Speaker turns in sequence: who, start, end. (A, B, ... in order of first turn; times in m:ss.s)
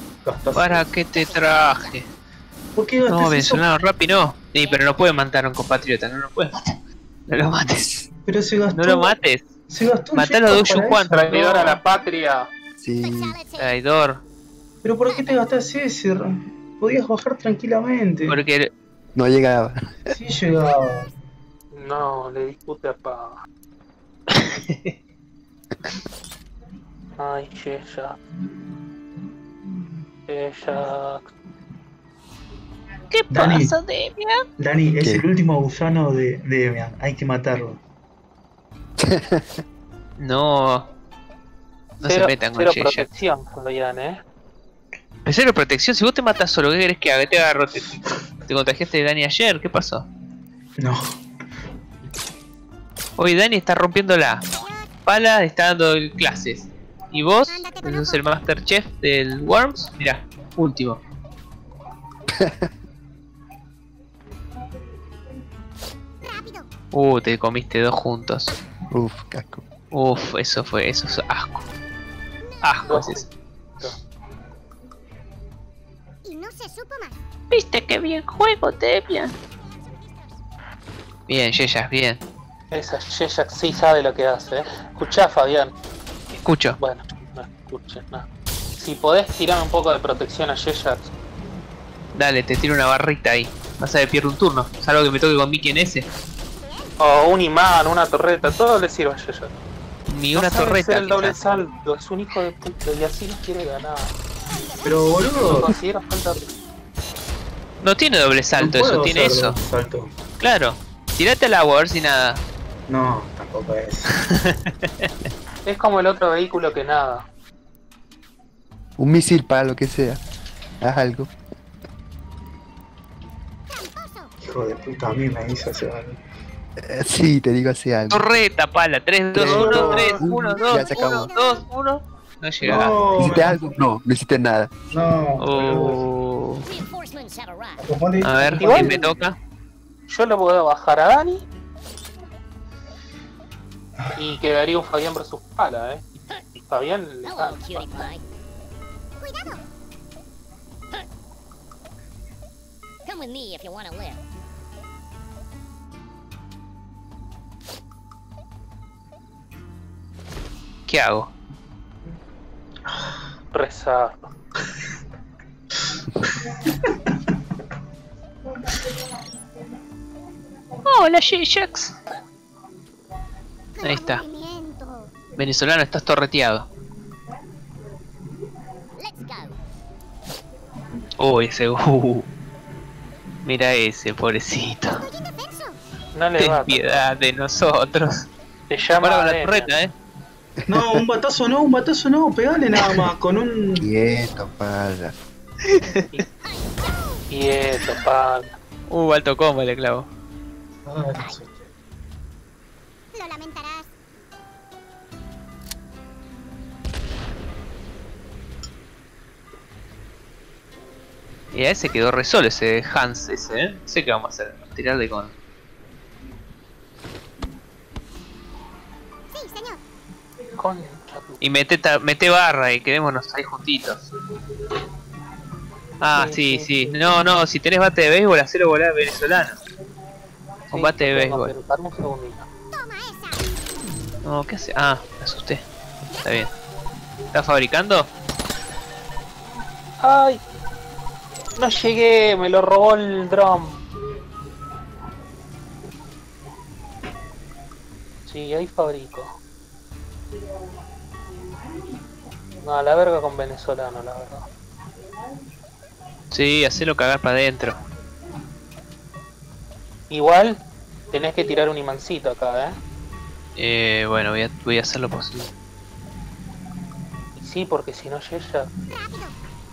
0:00.2-0:00.9 A
0:00.5-0:02.1 B
0:01.1-0:02.0 C
0:02.7-0:03.6 A
0:03.1-0:08.0 B
0:04.6-0:05.0 C
0:08.3-0:09.1 A
0:08.7-0:09.4 B
0:09.7-0:11.4 A
0:10.1-0:11.8 B
0:11.2-0:12.5 D
0:12.8-0:13.4 E
0:13.0-0:13.7 C
0:13.6-0:14.2 B
0:14.8-0:18.4 A
0:18.3-0:18.7 B
0:19.1-0:19.9 E
0:20.1-0:21.1 A
0:21.7-0:23.4 D
0:24.3-0:24.9 B
0:27.2-0:28.2 D
0:30.3-0:31.3 D
0:33.1-0:34.4 B
0:33.3-0:33.8 A
0:34.6-0:37.8 A
0:39.0-0:39.6 E
0:40.2-0:40.9 B
0:42.0-0:43.2 B
0:42.0-0:44.2 D
0:45.2-0:47.9 B
0:48.4-0:50.1 B
0:50.8-0:51.2 A
0:53.2-0:54.4 B
0:55.0-1:01.0 B
1:02.3-1:02.7 E
1:06.9-1:08.5 B
1:08.9-1:09.6 E
1:09.9-1:11.7 B
1:12.6-1:13.2 B
1:12.8-1:13.3 D
1:17.5-1:19.3 B
1:21.3-1:22.2 B
1:22.7-1:25.7 D
1:26.3-1:26.8 B
1:26.8-1:28.2 D
1:28.8-1:31.1 D
1:32.1-1:36.1 B
1:37.0-1:39.5 D
1:40.1-1:41.6 B
1:40.3-1:44.1 D
1:44.8-1:45.8 A
1:45.4-1:46.5 D
1:47.8-1:49.6 B
1:48.5-1:50.1 A
1:50.4-1:52.4 B
1:52.9-1:54.1 A
1:54.3-1:55.3 B
1:55.6-1:57.2 D
1:59.0-2:00.2 E
2:00.8-2:01.3 E
2:04.4-2:06.2 A
2:06.8-2:08.2 E
2:08.1-2:13.4 B
2:09.3-2:11.3 E
2:09.4-2:10.2 A
2:12.6-2:13.6 A
2:13.2-2:14.7 E
2:14.9-2:16.0 A
2:15.4-2:16.6 B
2:16.6-2:17.9 C
2:17.8-2:19.0 A
2:18.2-2:19.4 B
2:18.5-2:19.1 D
2:20.1-2:21.4 D
2:24.1-2:26.0 D
2:26.5-2:28.1 D
2:27.2-2:28.2 C
2:33.0-2:34.2 C
2:40.9-2:41.3 B
2:43.5-2:44.3 D
2:50.8-2:51.9 B
2:53.8-2:54.2 B
2:54.3-2:54.9 C
2:55.4-2:56.7 B
2:59.0-2:59.6 C
3:01.2-3:02.3 B
3:03.4-3:05.1 B
3:05.4-3:05.8 C
3:06.1-3:07.0 D
3:06.4-3:08.3 B
3:08.7-3:09.7 D
3:09.0-3:09.9 B
3:10.7-3:13.9 A
3:10.7-3:11.0 E
3:13.8-3:15.1 E
3:15.7-3:16.2 B
3:16.4-3:17.2 C
3:17.3-3:18.5 D
3:18.9-3:20.1 B
3:20.8-3:21.6 A
3:21.1-3:21.4 C
3:31.5-3:35.3 B
3:40.6-3:41.4 D
3:41.4-3:44.0 B
3:46.0-3:49.6 B
3:46.1-3:46.9 D
3:50.7-3:52.4 D
3:50.7-3:51.5 B
3:54.2-3:55.6 B
3:56.2-3:56.5 B
3:57.3-3:58.1 B
4:00.0-4:00.4 D
4:01.6-4:03.8 D
4:08.3-4:09.3 D
4:12.6-4:14.4 D
4:16.3-4:17.8 B
4:20.1-4:22.8 D
4:23.6-4:25.5 B
4:27.4-4:28.7 D